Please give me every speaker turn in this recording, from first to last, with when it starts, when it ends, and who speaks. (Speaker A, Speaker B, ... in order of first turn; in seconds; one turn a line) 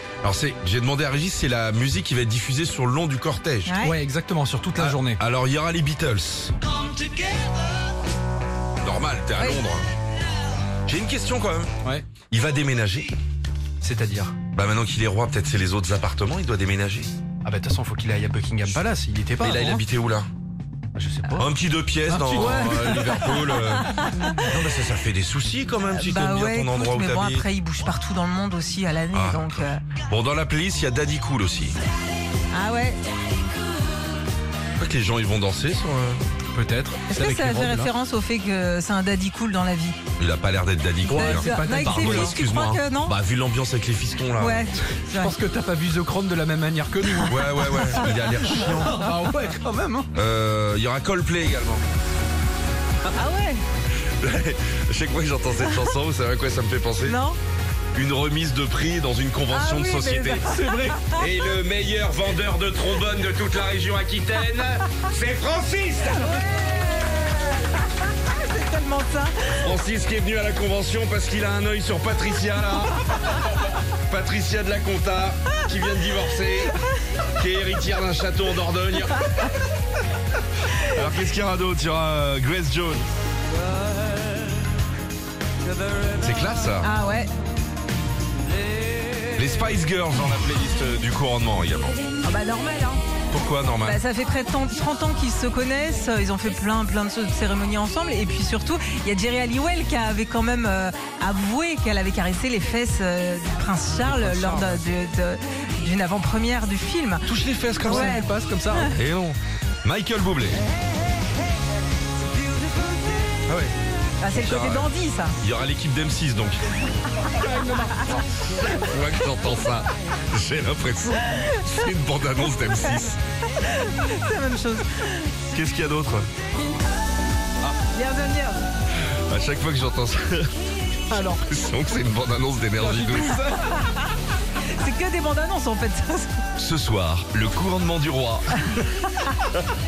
Speaker A: 0.2-3.7
Speaker B: 3.7-4.0
Speaker C: 3.8-5.2
Speaker A: 4.8-6.5
Speaker A: 8.8-9.9
Speaker B: 9.4-9.6
Speaker A: 10.9-11.7
Speaker A: 12.3-13.2
Speaker C: 13.8-14.3
Speaker A: 14.5-17.1
Speaker C: 17.4-19.8
Speaker A: 19.4-20.3
Speaker C: 20.9-21.5
Speaker A: 21.4-27.4
Speaker C: 22.1-23.6
Speaker B: 22.4-24.4
Speaker B: 25.9-29.8
Speaker A: 29.1-31.8
Speaker B: 32.5-33.0
Speaker A: 34.8-36.2
Speaker C: 36.5-37.9
Speaker B: 37.1-40.0
Speaker A: 40.2-44.6
Speaker C: 41.1-42.4
Speaker B: 41.1-43.1
Speaker B: 44.4-45.4
Speaker C: 45.1-50.1
Speaker A: 47.3-49.0
Speaker A: 50.1-51.8
Speaker B: 53.1-53.6
Speaker A: 54.2-57.2
Speaker B: 57.0-57.4
Speaker A: 57.9-60.5
Speaker B: 59.5-61.3
Speaker C: 60.5-61.0
Speaker A: 61.1-66.3
Speaker B: 66.3-67.5
Speaker B: 68.2-69.5
Speaker A: 69.6-73.3
Speaker A: 74.1-76.7
Speaker A: 77.4-79.3
Speaker A: 80.8-83.0
Speaker A: 86.1-86.9
Speaker B: 86.8-87.3
Speaker A: 89.3-92.0
Speaker B: 92.2-93.0
Speaker A: 93.3-94.0
Speaker B: 93.8-107.3
Speaker C: 104.1-104.8
Speaker C: 107.3-108.9
Speaker B: 107.8-108.9
Speaker A: 108.8-110.6
Speaker B: 114.2-115.3
Speaker A: 114.3-114.9
Speaker A: 115.4-116.6
Speaker C: 117.5-118.0
Speaker B: 117.7-118.2
Speaker A: 118.6-123.2
Speaker B: 121.2-121.7
Speaker B: 123.6-125.3
Speaker A: 125.5-126.3
Speaker B: 127.9-128.6
Speaker A: 129.3-130.5
Speaker C: 131.1-131.4
Speaker A: 131.5-133.4
Speaker C: 132.8-133.8
Speaker B: 134.8-136.4
Speaker A: 136.6-138.6